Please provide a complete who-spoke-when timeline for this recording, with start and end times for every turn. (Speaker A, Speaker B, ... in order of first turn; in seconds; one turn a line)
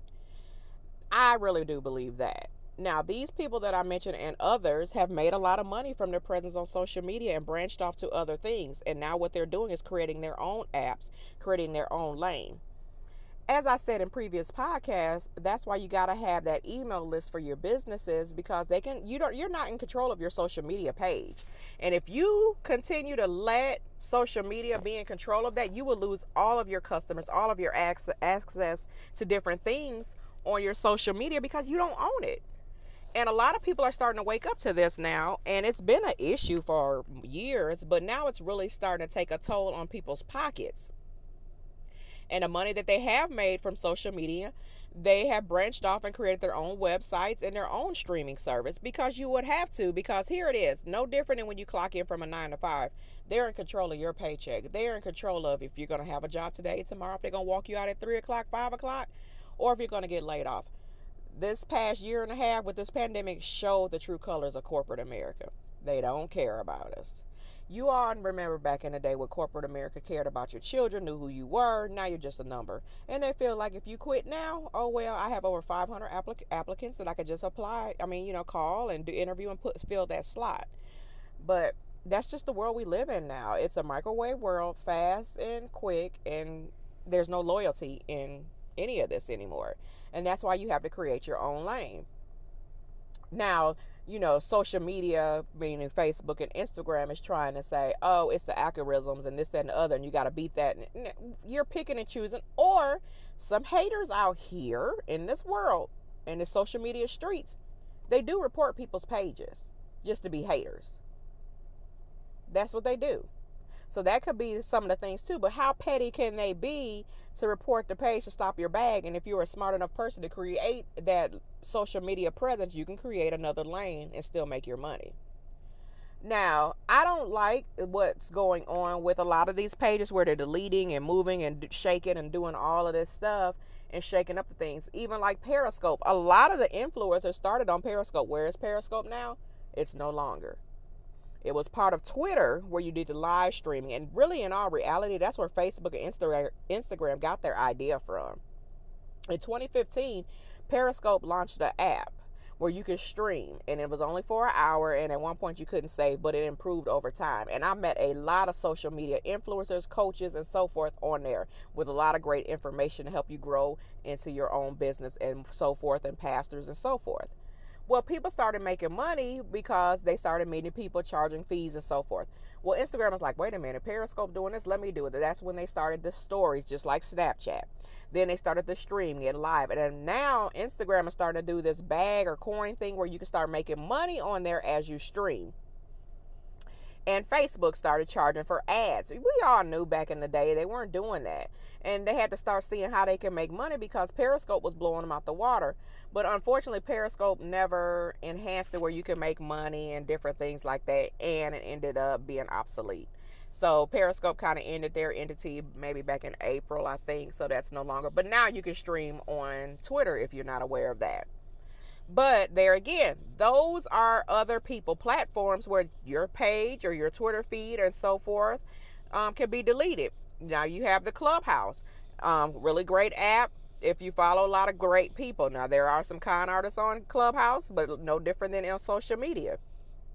Speaker A: 1.1-12.6
Speaker A: 13.5-32.4
Speaker A: 33.1-40.9
Speaker A: 42.3-60.7
Speaker A: 61.3-80.7
Speaker A: 81.4-92.1
Speaker A: 93.3-111.0
Speaker A: 112.5-113.3
Speaker A: 113.9-125.2
Speaker A: 126.2-140.6
Speaker A: 141.4-148.4
Speaker A: 149.3-167.3
Speaker A: 167.9-185.5
Speaker A: 187.1-211.3
Speaker A: 212.1-229.6